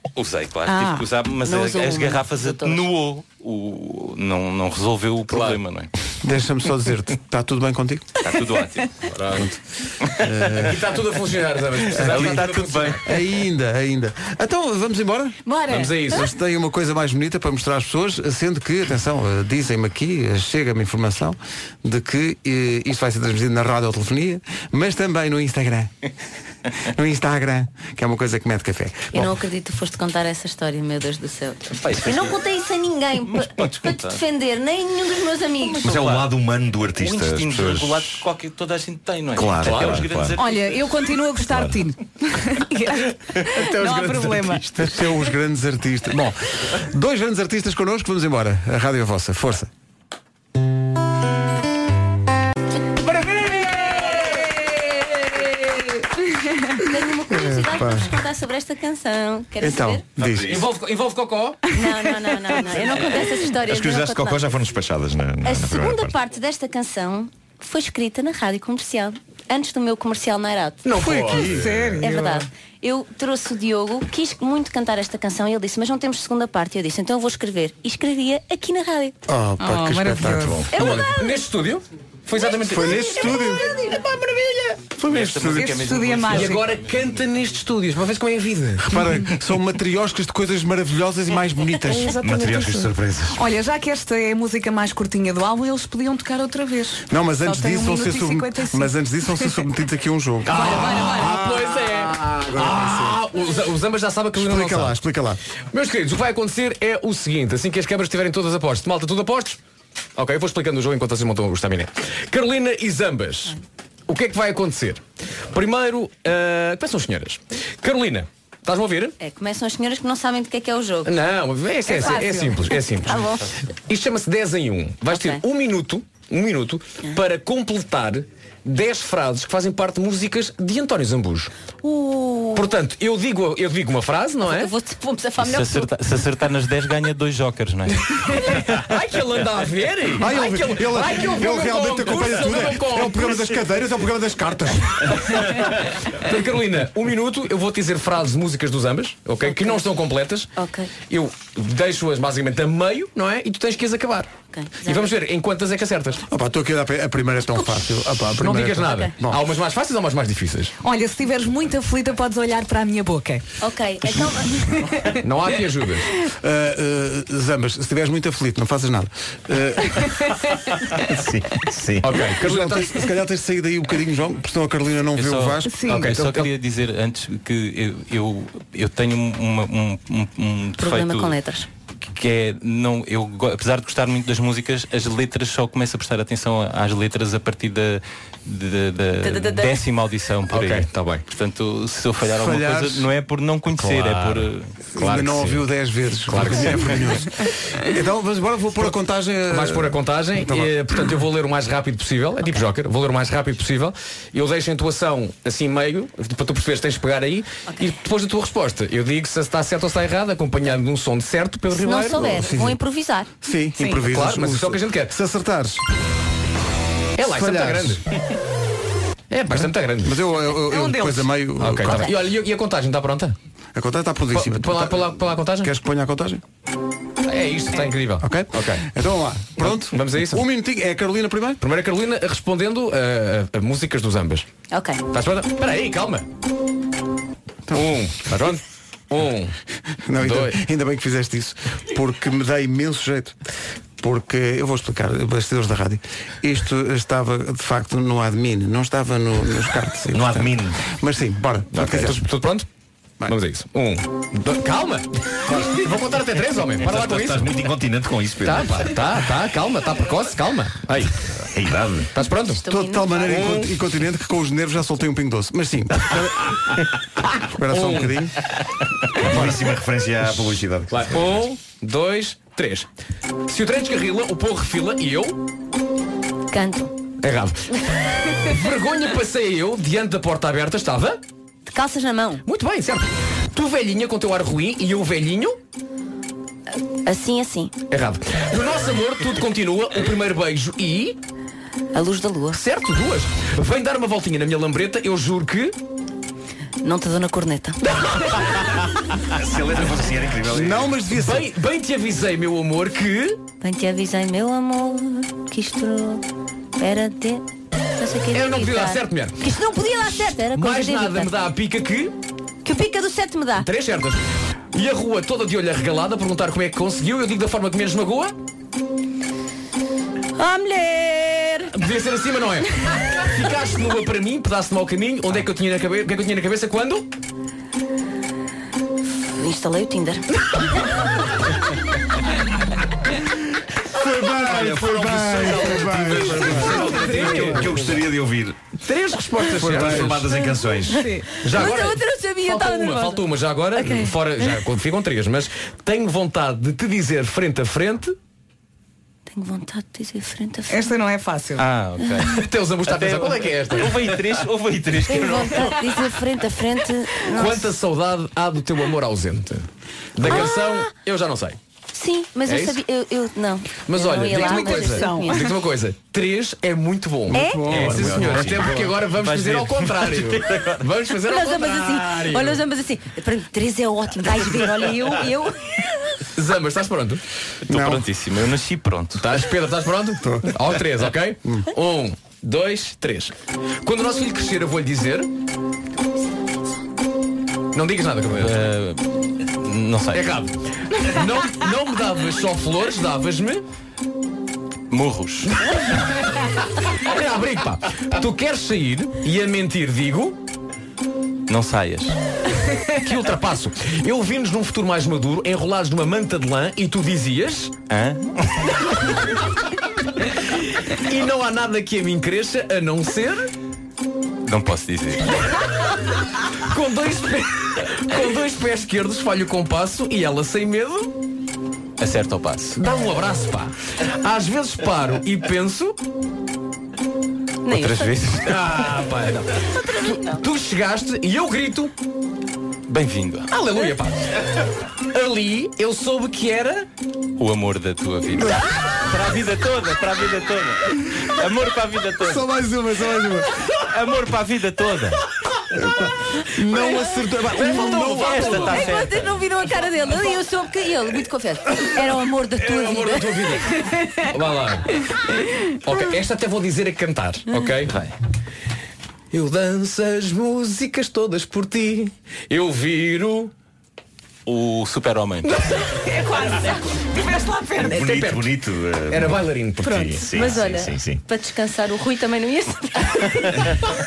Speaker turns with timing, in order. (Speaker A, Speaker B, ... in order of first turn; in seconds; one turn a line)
Speaker A: 0.1-5.9
Speaker B: 0.7-1.1
Speaker C: 1.4-2.8
Speaker D: 5.3-5.6
Speaker E: 6.2-8.1
Speaker A: 8.2-8.9
Speaker D: 9.0-9.5
Speaker A: 10.0-10.3
Speaker E: 10.2-10.8
Speaker D: 10.6-13.1
Speaker A: 11.9-13.0
Speaker E: 11.9-12.4
Speaker E: 13.0-15.4
Speaker B: 15.4-16.1
Speaker D: 15.7-16.2
Speaker E: 16.1-25.9
Speaker E: 26.8-29.3
Speaker C: 29.1-35.9
Speaker A: 31.7-32.4
Speaker A: 33.5-34.2
Speaker A: 35.7-36.3
Speaker F: 35.8-38.1
Speaker A: 36.9-40.7
Speaker F: 39.4-40.4
Speaker D: 39.6-40.0
Speaker B: 40.4-44.6
Speaker F: 41.5-41.8
Speaker E: 44.7-49.7
Speaker C: 56.7-60.0
Speaker E: 57.3-58.2
Speaker E: 59.6-60.6
Speaker F: 60.2-60.6
Speaker D: 60.4-61.8
Speaker C: 61.7-64.4
Speaker F: 63.6-66.1
Speaker C: 65.4-70.8
Speaker D: 70.8-71.6
Speaker E: 70.9-72.0
Speaker B: 71.3-72.5
Speaker C: 72.0-79.1
Speaker E: 79.3-81.1
Speaker B: 79.6-80.6
Speaker D: 80.7-83.6
Speaker C: 80.8-81.3
Speaker E: 82.7-83.7
Speaker C: 83.6-84.0
Speaker E: 85.0-85.9
Speaker A: 85.0-86.9
Speaker B: 85.6-86.6
Speaker D: 86.3-88.9
Speaker E: 88.8-92.2
Speaker B: 92.2-92.7
Speaker F: 92.2-93.4
Speaker B: 93.3-99.5
Speaker E: 97.1-103.2
Speaker D: 100.5-105.0
Speaker B: 100.5-101.5
Speaker E: 104.3-105.4
Speaker D: 105.7-109.6
Speaker D: 110.2-119.2
Speaker C: 119.2-121.1
Speaker D: 121.0-131.5
Speaker B: 121.8-122.6
Speaker C: 123.0-123.5
Speaker C: 125.1-125.4
Speaker C: 131.8-132.7
Speaker D: 132.5-134.7
Speaker C: 134.4-135.9
Speaker A: 135.4-138.6
Speaker D: 138.1-143.5
Speaker E: 140.2-145.3
Speaker D: 145.4-150.5
Speaker C: 149.4-149.8
Speaker C: 150.6-150.9
Speaker D: 151.0-156.2
Speaker C: 154.5-155.1
Speaker E: 156.3-159.4
Speaker D: 158.4-160.7
Speaker C: 158.8-159.1
Speaker B: 160.8-163.4
Speaker C: 163.6-164.9
Speaker D: 165.2-166.1
Speaker E: 166.4-170.1
Speaker F: 171.1-172.1
Speaker D: 172.0-172.9
Speaker E: 172.3-175.7
Speaker A: 175.2-181.3
Speaker B: 175.6-176.1
Speaker D: 175.9-176.5
Speaker C: 180.8-181.7
Speaker A: 182.1-194.7
Speaker C: 189.2-189.8
Speaker D: 190.5-191.2
Speaker E: 192.2-193.1
Speaker D: 193.8-195.7
Speaker E: 194.9-200.7
Speaker D: 196.3-197.1
Speaker D: 199.5-212.6
Speaker C: 211.7-213.3
Speaker E: 212.1-212.8
Speaker E: 213.4-215.8
Speaker D: 213.9-215.1
Speaker D: 217.2-218.0
Speaker E: 217.2-218.0
Speaker D: 219.3-220.2
Speaker E: 219.5-222.1
Speaker B: 220.6-221.3
Speaker D: 221.6-223.3
Speaker C: 221.8-222.1
Speaker E: 223.7-226.4
Speaker D: 224.3-225.7
Speaker D: 227.2-228.8
Speaker E: 228.2-231.6
Speaker D: 229.6-230.4
Speaker D: 231.6-234.4
Speaker C: 234.7-235.0
Speaker D: 235.1-236.3
Speaker E: 237.7-238.0
Speaker D: 237.7-239.5
Speaker E: 240.0-243.3
Speaker D: 240.2-240.6
Speaker E: 244.0-252.2
Speaker F: 250.1-250.8
Speaker D: 251.8-252.7
Speaker D: 253.3-257.6
Speaker F: 256.8-258.9
Speaker D: 258.4-261.1
Speaker F: 261.4-262.1
Speaker D: 262.1-262.6
Speaker C: 262.5-263.3
Speaker E: 262.7-266.7
Speaker D: 263.2-263.7
Speaker E: 267.4-268.3
Speaker D: 267.7-268.2
Speaker F: 269.2-271.3
Speaker E: 269.3-269.6
Speaker D: 270.9-272.9
Speaker D: 273.5-275.4
Speaker C: 276.5-276.9
Speaker D: 277.2-281.2
Speaker C: 281.7-282.4
Speaker D: 282.4-285.6
Speaker C: 287.0-287.7
Speaker D: 287.9-291.2
Speaker C: 291.9-292.6
Speaker D: 292.5-295.7
Speaker C: 296.8-297.8
Speaker D: 297.9-298.6
Speaker F: 299.3-300.9
Speaker E: 300.5-301.5
Speaker D: 301.0-303.4
Speaker C: 303.6-306.2
Speaker C: 306.8-307.4
Speaker C: 308.0-311.3
Speaker D: 308.3-309.5
Speaker D: 310.2-312.1
Speaker C: 312.6-313.7
Speaker D: 313.6-318.3
Speaker C: 320.4-321.7
Speaker D: 321.7-327.1
Speaker C: 329.4-330.2
Speaker E: 333.9-337.8
Speaker F: 334.4-338.6
Speaker D: 335.8-337.9
Speaker D: 338.8-340.3
Speaker E: 339.5-340.2
Speaker F: 339.6-341.0
Speaker B: 340.9-341.3
Speaker D: 341.4-348.1
Speaker C: 341.4-344.6
Speaker C: 349.3-350.9
Speaker B: 350.7-351.6
Speaker A: 351.6-355.7
Speaker D: 352.2-354.2
Speaker C: 355.1-357.6
Speaker D: 357.2-361.6
Speaker C: 360.2-360.9
Speaker C: 361.9-365.5
Speaker D: 362.4-362.8
Speaker D: 363.8-372.6
Speaker B: 364.3-365.5
Speaker E: 367.3-368.7
Speaker C: 367.3-367.7
Speaker F: 367.7-368.9
Speaker A: 369.1-370.8
Speaker C: 371.3-376.2
Speaker D: 376.3-377.2
Speaker A: 377.7-379.3
Speaker E: 377.7-378.1
Speaker D: 379.2-383.3
Speaker E: 380.2-380.5
Speaker D: 383.8-385.3
Speaker D: 387.7-388.6
Speaker A: 388.3-390.4
Speaker D: 390.1-393.6
Speaker A: 394.9-395.5
Speaker D: 395.5-400.4
Speaker A: 401.5-402.2
Speaker D: 402.9-407.7
Speaker A: 407.9-408.5
Speaker D: 410.6-413.5
Speaker A: 414.4-415.2
Speaker D: 416.6-421.1
Speaker A: 422.0-422.8
Speaker D: 422.7-426.0
Speaker C: 427.6-428.3
Speaker A: 427.7-428.7
Speaker D: 428.4-431.9
Speaker C: 429.8-430.4
Speaker A: 432.9-433.5
Speaker D: 433.5-436.9
Speaker A: 437.4-442.5
Speaker E: 438.3-438.7
Speaker E: 442.2-443.5
Speaker A: 443.8-445.2
Speaker E: 445.7-448.9
Speaker C: 446.8-447.1
Speaker D: 447.5-449.0
Speaker A: 448.2-449.3
Speaker C: 448.5-453.6
Speaker D: 452.5-455.1
Speaker D: 455.6-457.9
Speaker A: 457.8-458.1
Speaker D: 459.3-463.5
Speaker A: 464.4-465.6
Speaker B: 465.8-468.2
Speaker F: 467.8-471.2
Speaker D: 468.0-468.4
Speaker D: 469.1-470.1
Speaker B: 469.8-470.2
Speaker C: 470.3-473.5